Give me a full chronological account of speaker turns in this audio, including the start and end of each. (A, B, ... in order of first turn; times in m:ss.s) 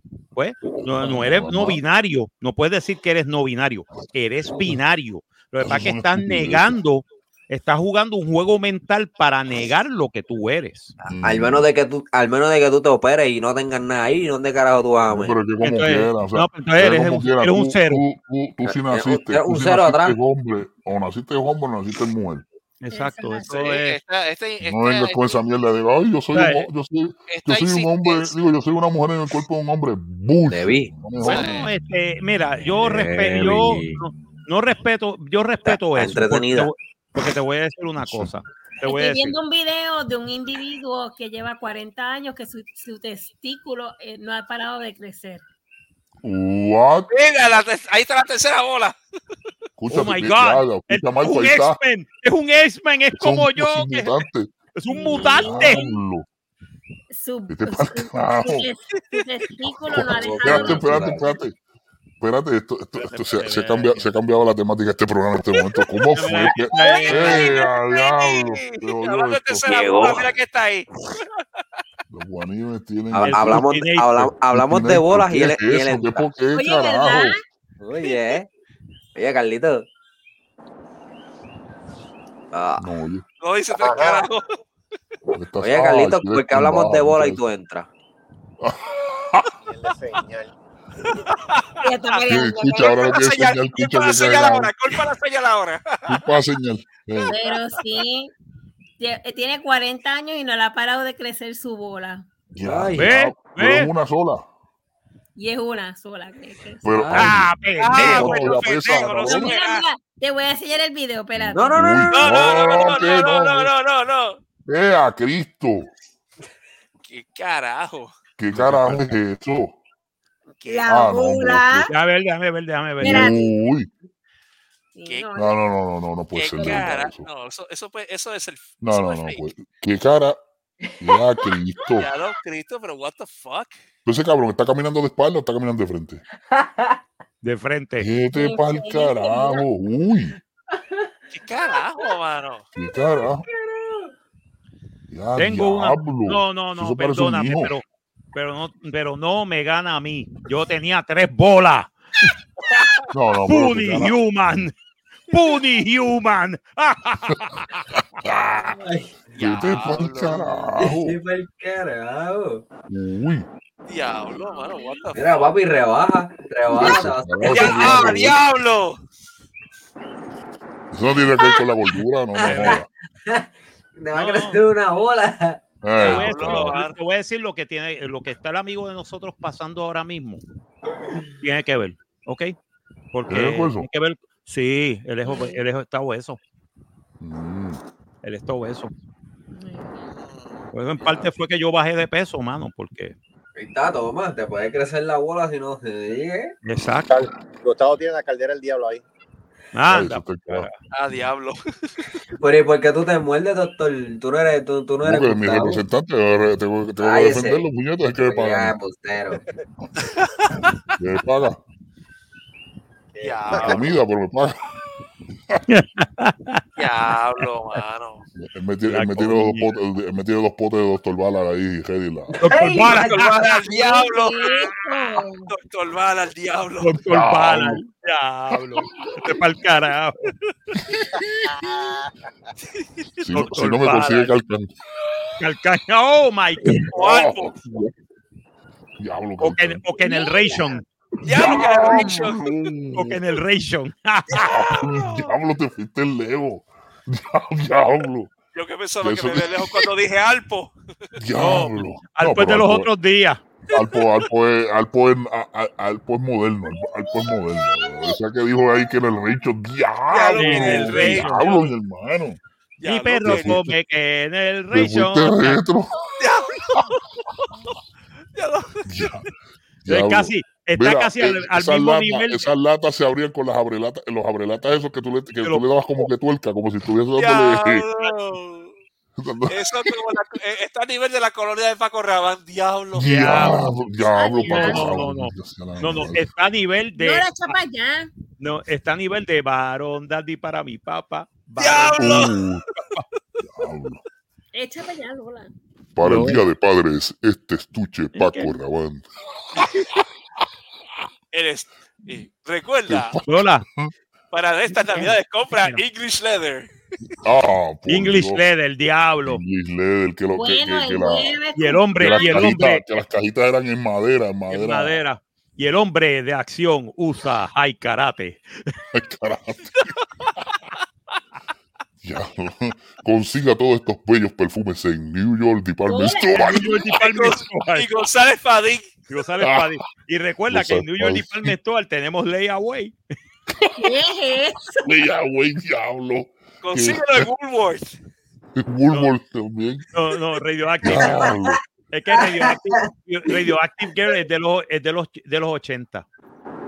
0:00.3-0:10.9 A
0:00.6-0:01.8 B
0:04.0-0:04.8 B
0:05.6-0:06.8 B
0:11.0-0:15.4 C
0:11.0-0:11.7 B
0:15.1-0:22.5 B
0:15.6-0:18.0 A
0:18.6-0:20.2 C
0:22.8-0:24.0 A
0:22.9-0:23.6 D
0:23.5-0:25.4 E
0:24.6-0:31.7 B
0:26.3-0:26.7 A
0:27.3-0:28.4 E
0:30.5-0:30.9 C
0:31.2-0:39.4 A
0:31.2-0:31.6 E
0:32.6-0:34.0 C
0:35.6-0:36.7 C
0:38.0-0:38.3 B
0:38.8-0:45.4 D
0:46.2-0:47.1 B
0:47.1-0:49.0 E
0:49.8-0:51.8 B
0:49.9-0:54.2 A
0:53.1-0:54.5 B
0:54.7-0:55.8 A
0:54.9-0:56.0 D
0:55.1-0:56.2 B
0:57.1-1:01.4 D
0:57.5-0:58.7 B
0:59.9-1:01.6 B
0:59.9-1:01.2 C
1:02.2-1:09.7 B
1:03.0-1:04.0 A
1:06.1-1:07.4 A
1:07.3-1:11.2 E
1:09.6-1:10.3 C
1:12.1-1:13.7 B
1:13.1-1:16.4 C
1:13.2-1:14.3 A
1:14.4-1:17.4 B
1:16.5-1:17.4 D
1:17.8-1:18.5 C
1:19.1-1:19.8 C
1:22.5-1:22.9 C
1:22.8-1:23.2 B
1:23.4-1:24.6 E
1:23.7-1:24.3 F
1:25.3-1:27.4 B
1:25.6-1:27.9 C
1:28.6-1:29.4 B
1:29.6-1:30.5 F
1:31.8-1:32.1 E
1:31.8-1:33.1 D
1:32.3-1:35.0 B
1:32.8-1:36.2 E
1:36.1-1:37.3 B
1:37.2-1:37.5 E
1:37.3-1:38.3 D
1:39.0-1:42.2 D
1:42.5-1:44.5 B
1:42.6-1:43.1 C
1:43.0-1:43.9 A
1:45.4-1:46.9 D
1:46.8-1:49.5 B
1:46.9-1:47.4 C
1:47.1-1:48.5 A
1:47.8-1:49.8 E
1:48.0-1:48.5 C
1:49.1-1:52.4 D
1:51.4-1:53.7 B
1:51.5-1:52.0 C
1:52.1-1:54.4 E
1:54.6-1:55.9 B
1:57.1-1:58.1 E
1:58.4-1:59.8 B
1:58.5-1:59.0 A
2:00.6-2:00.9 E
2:00.6-2:01.9 D
2:00.9-2:01.9 B
2:01.9-2:03.4 A
2:03.0-2:03.5 D
2:03.0-2:03.9 B
2:04.9-2:05.5 D
2:05.3-2:07.3 B
2:06.3-2:09.4 E
2:08.8-2:10.4 B
2:11.0-2:12.1 B
2:12.0-2:13.8 E
2:14.0-2:16.2 B
2:16.5-2:17.0 C
2:17.4-2:18.1 A
2:18.0-2:20.4 B
2:18.3-2:19.6 D
2:21.3-2:22.6 E
2:22.8-2:23.4 B
2:25.1-2:27.8 B
2:25.4-2:31.9 A
2:33.1-2:34.2 B
2:33.5-2:34.7 A
2:35.3-2:37.9 A
2:38.2-2:38.8 B
2:38.8-2:39.7 C
2:39.4-2:40.4 E
2:39.4-2:41.2 B
2:40.2-2:42.6 C
2:42.9-2:43.5 B
2:43.9-2:45.5 E
2:45.1-2:48.3 C
2:46.7-2:48.4 B
2:47.4-2:49.0 E
2:50.9-2:52.9 B
2:52.4-2:55.6 C
2:52.4-2:52.8 A
2:54.1-2:54.6 A
2:55.8-2:56.8 B
2:56.0-3:00.4 A
2:56.0-2:57.0 E
3:01.4-3:02.5 A
3:03.1-3:06.4 A
3:03.3-3:03.9 B
3:05.2-3:05.6 D
3:07.2-3:07.8 B
3:08.2-3:08.9 A
3:09.6-3:10.1 D
3:10.2-3:11.3 E
3:10.7-3:13.1 A
3:13.5-3:16.6 C
3:16.6-3:17.1 A
3:17.1-3:19.0 F
3:19.7-3:20.8 A
3:19.9-3:20.7 B
3:20.9-3:22.0 E
3:22.4-3:25.8 C
3:25.0-3:28.8 B
3:27.0-3:27.6 C
3:28.2-3:29.4 C
3:30.0-3:30.5 E
3:30.9-3:31.6 B
3:33.1-3:34.0 F
3:33.2-3:33.9 E
3:33.5-3:34.6 B
3:35.7-3:36.6 A
3:36.8-3:38.2 E
3:38.4-3:42.4 B
3:38.9-3:39.7 A
3:42.4-3:44.1 C
3:42.4-3:43.4 A
3:42.8-3:44.7 E
3:43.9-3:45.5 D
3:45.5-3:47.0 E
3:46.8-3:50.3 A
3:47.1-3:47.8 B
3:50.8-3:51.7 B
3:51.6-3:52.0 F
3:53.2-3:54.7 B
3:53.3-3:54.4 A
3:55.4-3:56.9 A
3:56.6-3:57.9 B
3:56.9-3:57.5 E
3:59.0-3:59.8 B
3:59.4-4:00.8 A
4:00.0-4:00.8 D
4:01.2-4:02.4 E
4:01.2-4:03.2 B
4:02.9-4:04.5 A
4:04.4-4:08.3 B
4:04.9-4:05.3 E
4:08.5-4:10.7 E
4:09.0-4:09.8 B
4:11.2-4:12.9 B
4:11.3-4:13.4 A
4:13.7-4:22.4 B
4:20.1-4:21.3 E
4:20.4-4:21.7 A
4:22.8-4:23.6 E
4:22.8-4:25.6 A
4:23.2-4:23.7 B
4:24.7-4:25.9 B
4:26.2-4:27.0 E
4:28.4-4:29.1 E
4:28.9-4:29.3 B
4:29.8-4:37.9 B
4:29.9-4:32.5 A
4:37.2-4:38.8 E
4:39.2-4:39.6 B
4:39.5-4:43.6 E
4:42.9-4:46.3 B
4:43.1-4:43.6 A
4:44.1-4:45.0 D
4:44.4-4:47.6 A
4:47.0-4:48.1 D
4:48.4-4:52.3 A
4:51.6-4:52.4 E
4:52.0-4:52.6 B
4:53.4-4:54.0 B
4:54.5-4:55.5 D
4:56.0-4:59.1 B
4:56.0-4:56.4 A
4:58.1-4:58.5 A
4:59.6-4:59.9 E
5:01.3-5:03.2 E
5:02.9-5:03.9 B
5:03.3-5:03.6 A
5:04.3-5:06.7 E
5:07.2-5:08.4 B
5:07.9-5:09.4 A
5:09.2-5:11.4 B
5:10.3-5:12.5 D
5:11.6-5:12.8 A
5:12.0-5:15.0 B
5:14.5-5:18.7 A
5:18.9-5:19.9 B
5:22.0-5:26.9 B
5:25.8-5:26.7 D
5:26.4-5:27.9 A
5:26.9-5:28.9 E
5:29.1-5:32.9 A
5:29.4-5:29.8 B
5:30.5-5:31.5 B
5:33.7-5:34.9 D
5:34.8-5:37.2 B
5:36.6-5:37.9 E
5:38.6-5:39.8 B
5:39.9-5:41.3 A
5:40.8-5:41.6 B
5:41.9-5:46.0 A
5:42.1-5:43.5 C